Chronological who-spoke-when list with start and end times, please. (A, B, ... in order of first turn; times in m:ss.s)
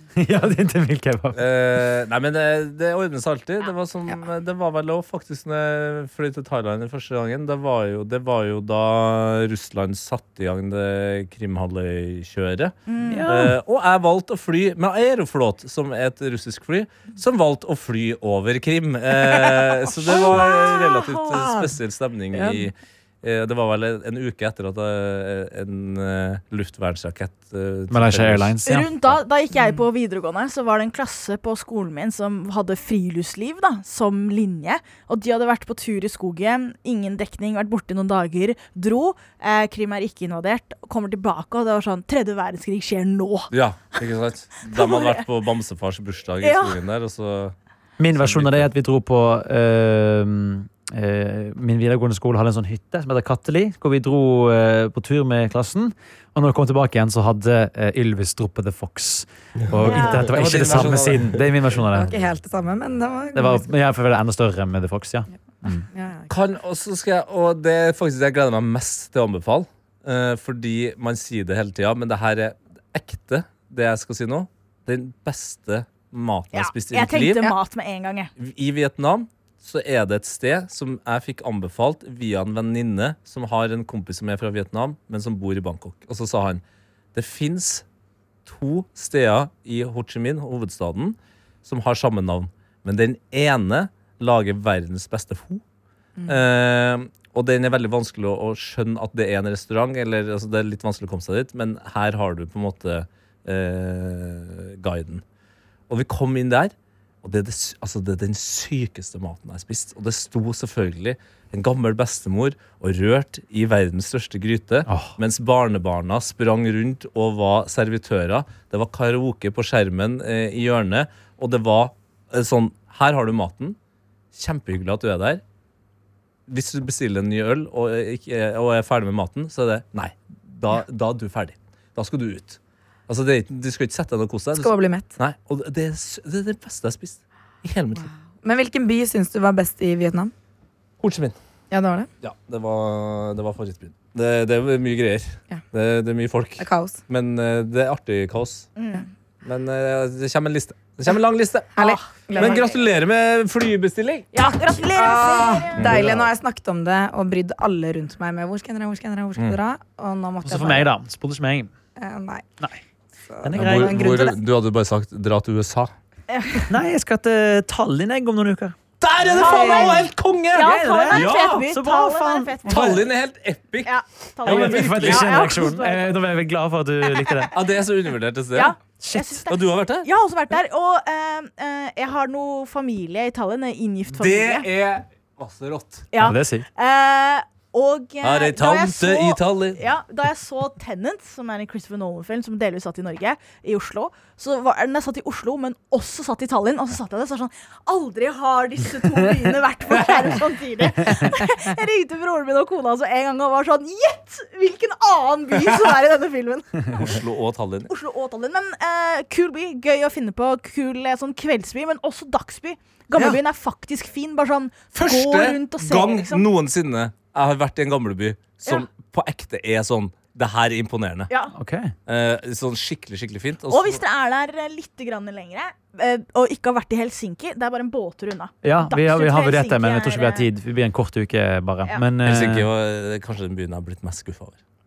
0:00.2-0:01.4 A
0:01.3-0:28.6 B
0:12.9-0:13.2 C
0:13.1-0:13.6 A
0:20.1-0:20.8 D
0:20.1-0:21.4 C
0:22.3-0:22.7 D
0:27.9-0:28.9 A
0:28.6-0:43.5 C
0:43.5-0:47.5 B
0:44.7-0:45.2 C
0:46.4-0:46.8 C
0:48.0-1:02.2 A
0:48.1-0:48.7 B
0:59.8-1:00.3 C
0:59.9-1:01.4 B
1:01.9-1:03.7 D
1:03.3-1:05.8 A
1:05.9-1:06.3 D
1:06.3-1:17.5 B
1:16.5-1:18.3 C
1:18.4-1:26.6 B
1:27.1-1:27.8 B
1:28.4-1:35.6 B
1:36.2-1:45.2 B
1:45.9-2:03.8 B
1:54.9-1:55.1 A
2:04.3-2:05.4 B
2:06.5-2:18.1 B
2:14.5-2:15.1 D
2:17.9-2:20.3 D
2:21.0-2:21.4 B
2:21.7-2:22.1 D
2:22.2-2:28.7 B
2:26.6-2:27.0 D
2:28.8-2:29.1 C
2:29.4-2:34.3 B
2:31.8-2:32.7 D
2:31.8-2:32.7 C
2:34.3-2:36.0 C
2:34.9-2:40.9 D
2:35.8-2:36.3 B
2:40.4-2:41.7 A
2:42.0-2:42.5 D
2:43.3-2:44.4 D
2:43.4-2:44.0 A
2:43.6-2:45.9 B
2:46.3-2:46.7 C
2:46.7-2:48.8 A
2:49.0-2:51.7 B
2:49.3-2:50.0 A
2:49.3-2:53.0 C
2:50.6-2:53.0 A
2:52.6-2:55.4 B
2:53.8-2:56.2 C
2:54.4-2:57.6 A
2:57.5-2:58.7 B
2:58.5-3:04.6 C
2:59.0-2:59.4 A
2:59.5-3:00.1 B
3:04.1-3:06.1 B
3:06.1-3:27.2 C
3:06.2-3:06.6 A
3:08.2-3:09.8 B
3:25.6-3:25.9 B
3:26.9-3:27.9 B
3:27.9-3:36.4 C
3:34.9-3:41.3 B
3:41.5-3:41.9 A
3:42.1-3:44.0 B
3:43.7-3:50.5 C
3:48.6-3:52.7 A
3:52.2-3:54.6 B